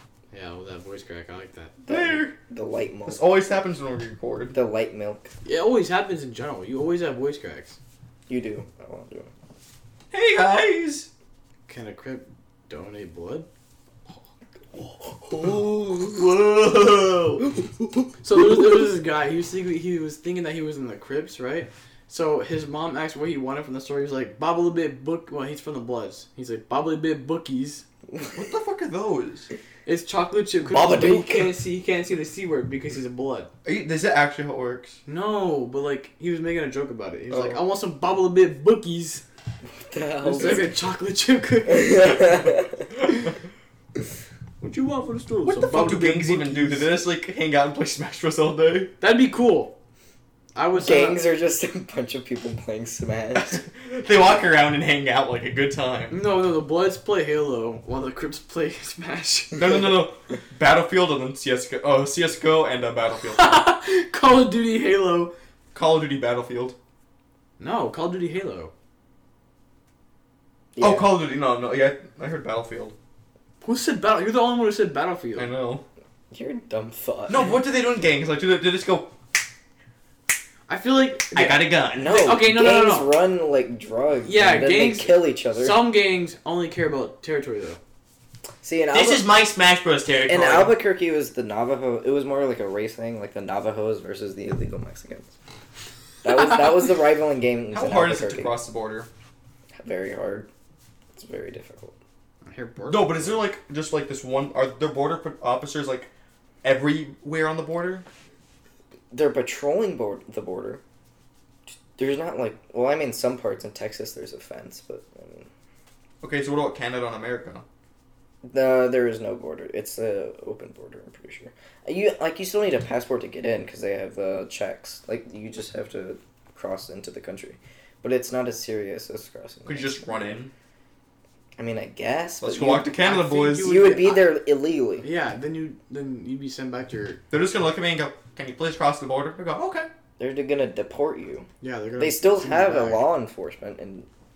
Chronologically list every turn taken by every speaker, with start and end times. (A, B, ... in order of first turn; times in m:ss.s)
0:00.3-0:01.8 A
0:01.9-0:03.2 B
0:01.9-0:02.4 C
0:03.1-0:04.6 C
0:04.5-0:05.3 B
0:05.4-0:07.8 A
0:08.3-0:09.3 B
0:10.1-0:11.1 C
0:11.7-0:13.5 A
0:15.3-0:17.5 C
0:18.2-0:27.8 A
0:28.3-0:29.5 C
0:29.9-0:33.5 A
0:30.7-0:31.5 C
0:33.6-0:35.0 C
0:35.1-0:39.2 A
0:37.3-0:37.6 C
0:39.8-0:40.7 B
0:40.2-0:42.6 A
0:41.7-0:42.9 B
0:44.6-0:46.9 A
0:45.4-0:48.9 C
0:49.0-0:49.8 A
0:50.6-0:51.2 A
0:50.7-0:53.6 B
0:53.4-0:56.2 C
0:56.1-0:59.8 A
0:59.6-1:03.6 C
1:03.3-1:05.3 A
1:05.7-1:06.8 C
1:07.6-1:08.7 A
1:10.8-1:11.2 B
1:10.8-1:13.0 C
1:13.6-1:15.5 A
1:15.4-1:15.8 C
1:16.3-1:17.5 B
1:17.3-1:19.1 C
1:20.7-1:23.1 A
1:21.3-1:22.2 C
1:22.0-1:25.8 B
1:24.2-1:27.8 A
1:28.6-1:29.3 B
1:28.9-1:30.8 C
1:30.3-1:35.3 B
1:36.2-1:38.6 B
1:37.7-1:39.1 C
1:39.8-1:40.5 B
1:41.2-1:42.0 B
1:42.5-1:43.4 A
1:42.9-1:46.1 C
1:46.6-1:48.1 C
1:49.1-1:50.8 B
1:51.7-1:55.5 B
1:56.2-1:57.6 C
1:58.4-2:10.4 B
2:09.7-2:10.5 C
2:11.6-2:13.0 B
2:12.4-2:13.8 C
2:13.0-2:14.3 A
2:13.6-2:15.1 B
2:15.0-2:17.2 A
2:17.3-2:19.9 C
2:20.2-2:24.1 B
2:21.6-2:23.1 A